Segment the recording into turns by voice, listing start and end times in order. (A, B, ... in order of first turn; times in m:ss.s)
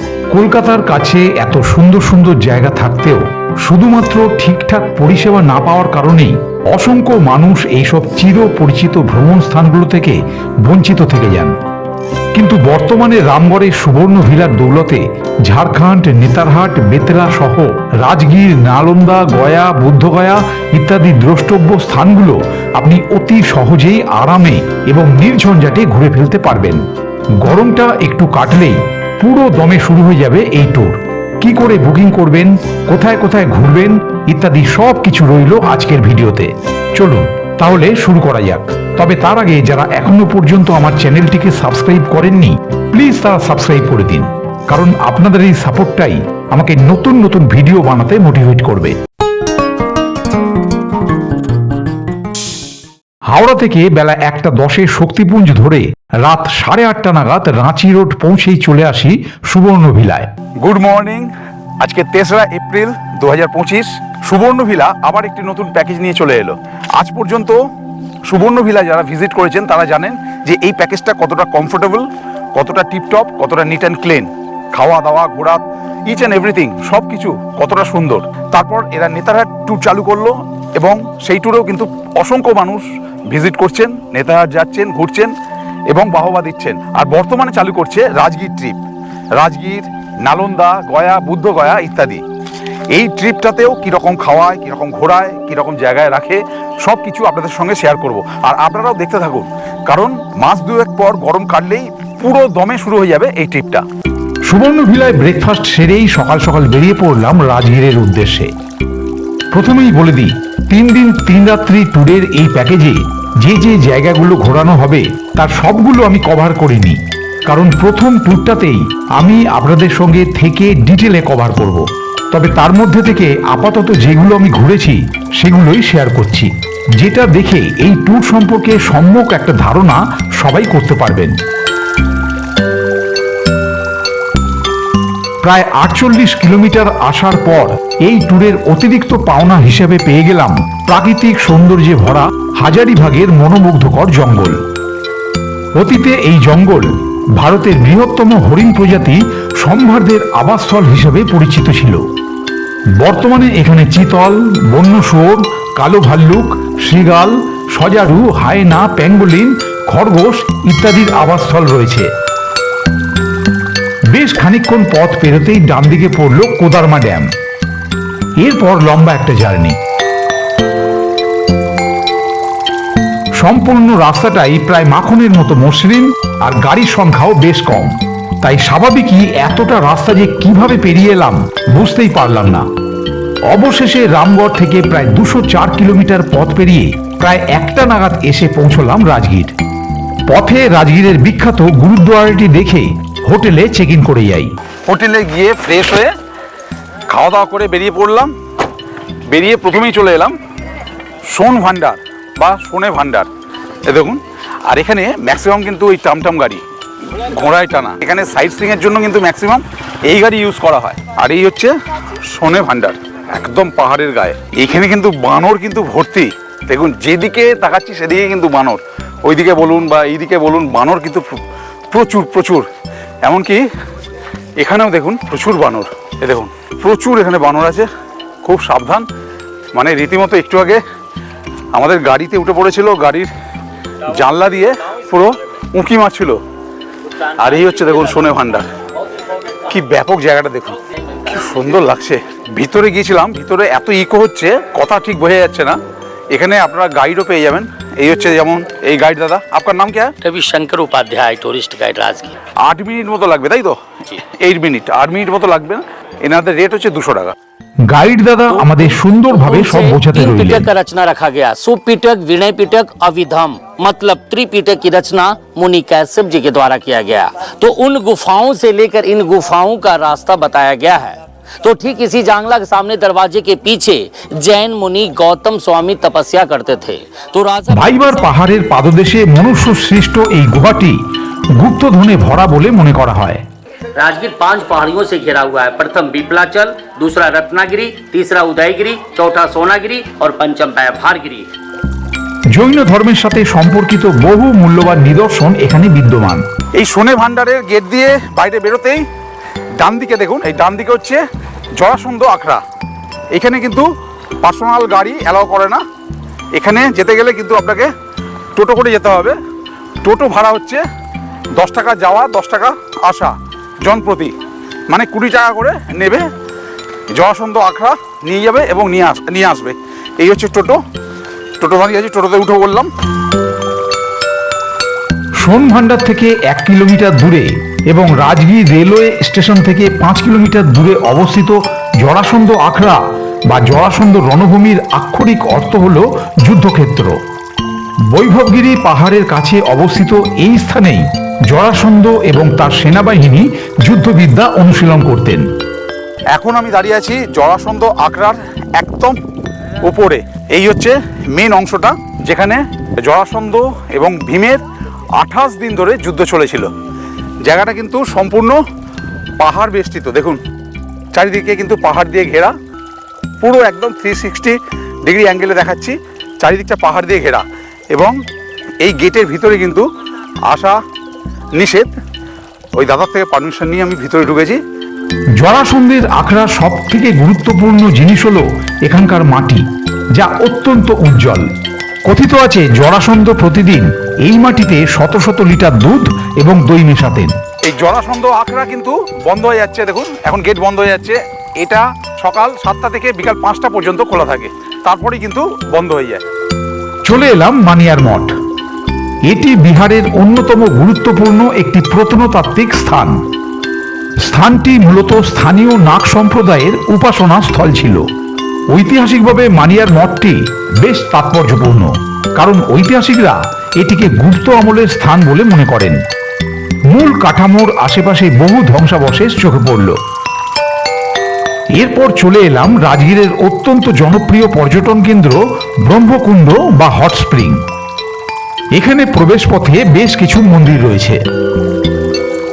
0:00.3-0:11.6 A
0:12.3-0:26.8 A
0:27.4-0:49.0 A
0:53.3-1:00.3 A
1:00.6-1:07.6 B
1:08.2-1:25.3 B
1:25.9-1:28.8 B
1:29.4-1:32.2 B
1:32.9-1:43.8 B
1:44.5-1:48.5 A
1:49.5-2:11.4 A
2:15.4-2:24.6 A
2:25.8-2:32.0 A
2:33.0-2:42.1 A
2:44.1-2:47.3 A
2:48.4-2:49.8 A
2:53.4-3:02.6 A
3:03.5-3:09.5 A
3:10.3-3:14.5 A
3:14.9-3:16.1 B
3:17.1-3:18.3 B
3:19.3-3:20.4 B
3:21.3-3:23.3 B
3:23.9-3:41.4 B
3:41.9-3:42.6 B
3:43.2-3:43.6 B
3:44.6-3:47.9 B
3:48.4-3:49.1 B
3:49.8-3:50.8 B
3:51.7-3:53.3 B
3:54.0-3:56.4 B
3:57.2-3:58.7 B
3:59.6-4:05.8 B
4:06.3-4:10.1 B
4:10.2-4:12.3 C
4:12.6-4:17.3 B
4:17.8-4:20.7 A
4:18.5-4:38.3 C
4:37.7-4:41.0 A
4:41.5-4:43.4 A
4:44.0-4:51.5 C
4:52.5-4:56.4 A
4:56.8-4:59.0 B
4:59.8-5:01.2 B
5:01.8-5:02.6 B
5:03.3-5:03.8 B
5:04.4-5:05.8 B
5:06.6-5:07.9 B
5:08.5-5:09.4 B
5:10.0-5:10.8 B
5:11.5-5:14.3 B
5:14.9-5:16.2 B
5:17.1-5:20.8 B
5:21.6-5:22.9 B
5:25.4-5:37.2 A
5:38.1-5:45.4 A
5:46.3-5:49.2 B
5:49.8-5:54.6 B
5:55.2-5:56.7 B
5:57.4-5:58.6 B
5:59.4-6:00.4 B
6:01.1-6:02.5 B
6:03.4-6:08.2 B
6:08.8-6:09.8 B
6:10.5-6:10.8 B
6:11.6-6:11.9 B
6:12.8-6:14.6 B
6:15.4-6:19.6 A
6:20.1-6:21.5 A
6:22.1-6:27.3 A
6:27.6-6:36.2 B
6:37.0-6:38.3 A
6:39.2-6:43.2 A
6:44.2-6:48.0 A
6:48.7-6:56.0 A
6:56.9-7:00.0 A
7:01.8-7:07.6 A
7:08.7-7:11.2 A